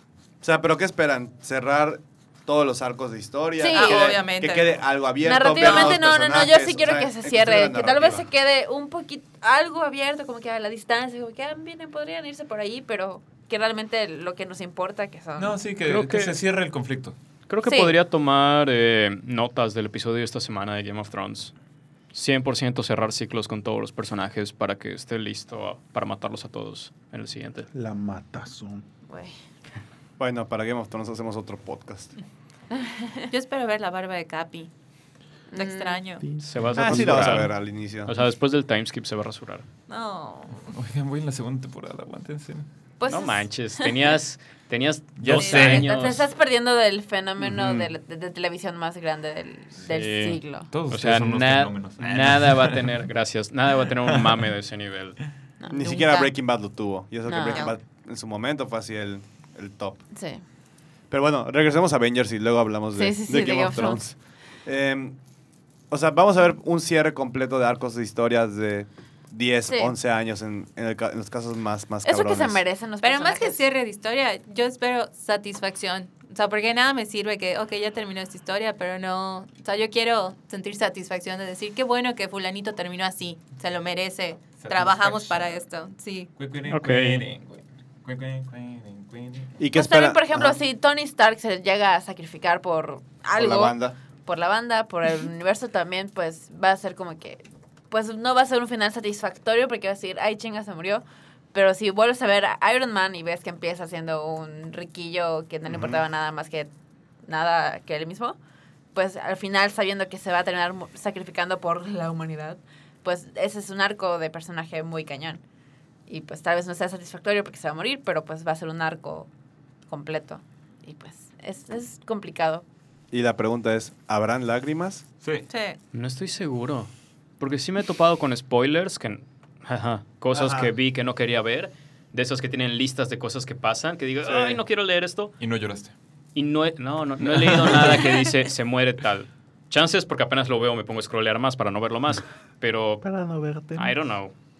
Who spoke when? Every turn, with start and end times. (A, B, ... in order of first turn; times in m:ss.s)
0:00.4-0:08.2 A
0:03.6-0:04.2 B
0:03.7-0:04.8 C
0:05.2-0:15.6 B
0:05.5-0:06.0 C
0:15.4-0:17.2 D
0:15.8-0:16.4 E
0:17.5-0:21.5 E
0:17.6-0:17.9 B
0:22.1-0:27.7 E
0:27.7-0:28.8 F
0:29.1-0:29.3 B
0:30.2-0:32.2 A
0:32.7-0:33.2 B
0:33.3-0:34.7 C
0:35.5-0:36.0 B
0:35.5-0:36.3 C
0:36.2-0:37.4 F
0:36.4-0:39.6 E
0:36.8-0:38.1 A
0:39.9-0:40.6 C
0:40.6-0:42.6 D
0:43.0-0:43.9 B
0:43.1-0:46.3 E
0:45.2-0:45.9 D
0:45.3-0:50.7 B
0:45.3-0:45.7 C
0:47.5-0:47.9 D
0:49.8-0:55.2 E
0:50.7-0:53.0 D
0:54.1-0:54.5 D
0:55.6-0:56.3 B
0:55.7-1:00.0 A
0:57.2-0:57.7 B
0:57.4-0:57.7 C
1:00.1-1:00.4 B
1:01.1-1:05.2 A
1:03.0-1:04.0 B
1:05.9-1:12.6 A
1:09.7-1:10.0 B
1:12.0-1:13.6 B
1:13.0-1:26.3 C
1:24.6-1:25.5 D
1:26.4-1:29.6 D
1:26.7-1:27.2 E
1:29.6-1:30.6 A
1:29.7-1:46.7 B
1:33.3-1:34.0 A
1:45.7-1:46.0 A
1:47.2-1:48.4 B
1:48.9-1:55.4 B
1:56.1-1:59.3 B
1:59.9-2:02.6 B
2:03.1-2:05.0 A
2:05.2-2:05.5 D
2:05.5-2:05.8 C
2:05.9-2:15.4 E
2:10.3-2:10.7 A
2:14.3-2:14.5 A
2:15.4-2:15.9 D
2:16.3-2:23.0 E
2:17.2-2:18.0 D
2:23.0-2:23.9 F
2:23.7-2:24.3 E